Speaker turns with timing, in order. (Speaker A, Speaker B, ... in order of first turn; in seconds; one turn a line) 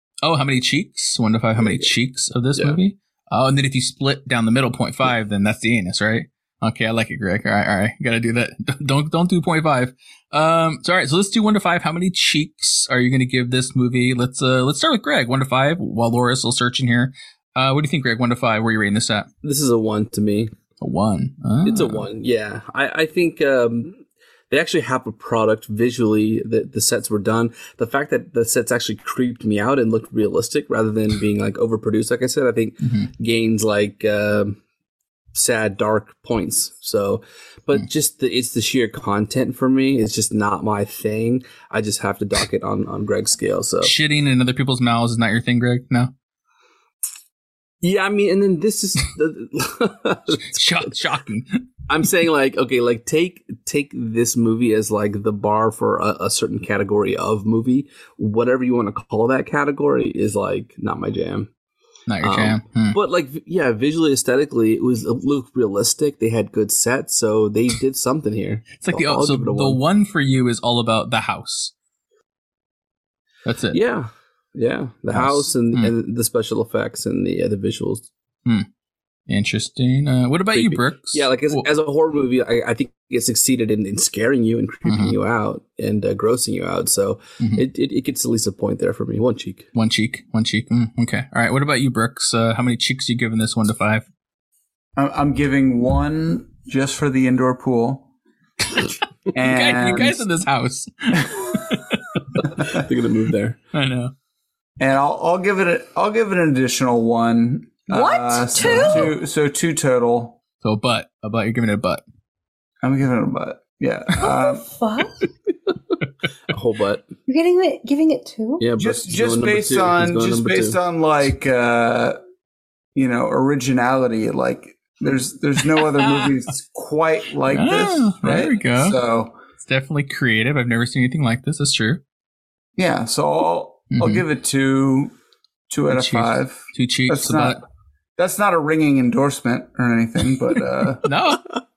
Speaker A: 0.2-19.3
Speaker B: 19.4-20.5
Speaker A: 20.8-22.1
Speaker B: 21.6-34.6
Speaker A: 32.8-33.1
Speaker B: 35.3-43.9
Speaker A: 43.8-46.1
Speaker B: 47.8-50.9
Speaker A: 50.5-51.6
Speaker B: 51.9-61.5
Speaker A: 62.1-63.0
Speaker B: 62.2-69.8
Speaker A: 68.8-71.7
Speaker A: 73.4-73.8
Speaker B: 73.7-78.1
Speaker A: 75.1-75.9
Speaker A: 79.3-81.6
Speaker B: 80.5-89.7
Speaker A: 84.8-85.2
Speaker A: 87.4-87.6
Speaker A: 89.7-94.0
Speaker C: 95.0-98.1
Speaker C: 99.3-100.2
Speaker A: 99.3-102.4
Speaker B: 102.6-103.6
Speaker A: 103.7-104.1
Speaker C: 104.8-110.4
Speaker D: 107.9-109.0
Speaker A: 108.6-109.1
Speaker A: 110.6-112.0
Speaker C: 112.8-114.6
Speaker D: 114.2-115.2
Speaker B: 116.5-117.0
Speaker D: 117.3-118.6
Speaker B: 118.6-120.8
Speaker C: 118.8-122.2
Speaker C: 122.9-129.4
Speaker A: 126.0-126.3
Speaker A: 127.5-129.0
Speaker A: 129.6-132.0
Speaker C: 132.8-135.1
Speaker A: 133.9-134.2
Speaker C: 135.7-137.6
Speaker A: 135.9-137.6
Speaker C: 138.2-141.0
Speaker A: 141.0-141.5